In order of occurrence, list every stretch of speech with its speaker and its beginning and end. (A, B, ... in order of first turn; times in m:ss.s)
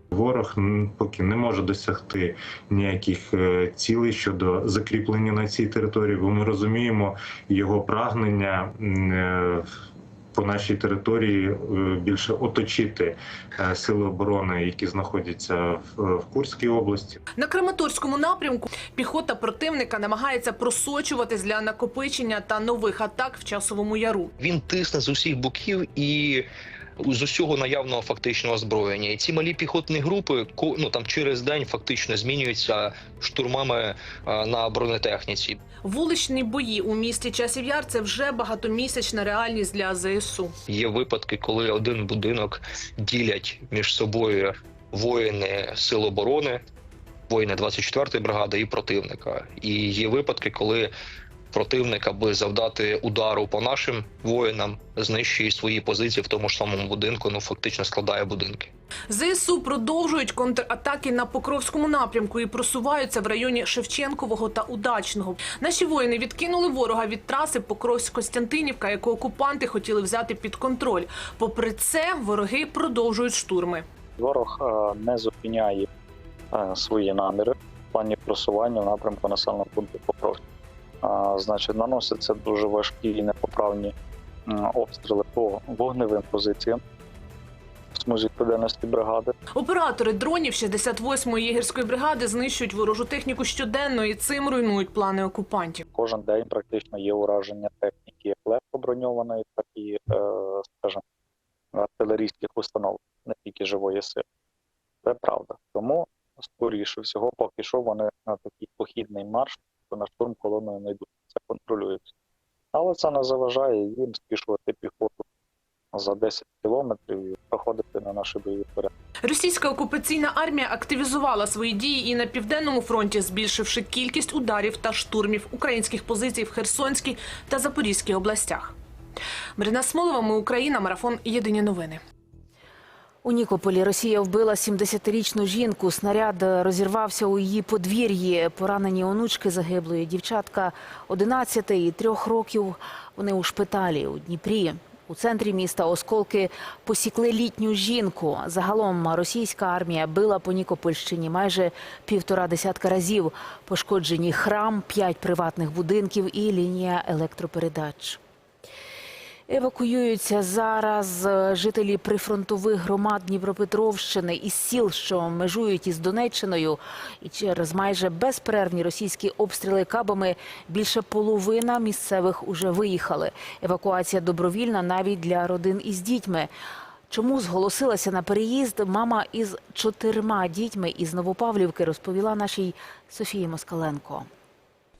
0:00.1-0:09.6 A
0:10.3-0:17.2 A
0:17.4-0:24.3 B
0:24.4-0:26.5 C
0:27.0-0:35.6 C
0:35.8-0:40.5 B
0:40.7-0:46.6 C
0:47.3-0:50.9 C
0:51.5-0:58.7 C
0:59.1-1:13.8 B
1:14.2-1:15.9 D
1:16.5-1:20.4 D
1:21.0-1:23.9 D
1:24.5-1:26.8 D
1:28.0-1:29.3 D
1:29.5-1:35.8 B
1:35.9-1:41.0 D
1:41.7-1:44.2 D
1:45.0-1:52.0 D
1:52.7-1:55.2 D
1:55.9-1:58.9 D
1:59.2-2:08.7 B
2:09.6-2:12.0 B
2:13.2-2:38.2 E
2:39.5-2:56.5 E
2:57.1-3:04.3 E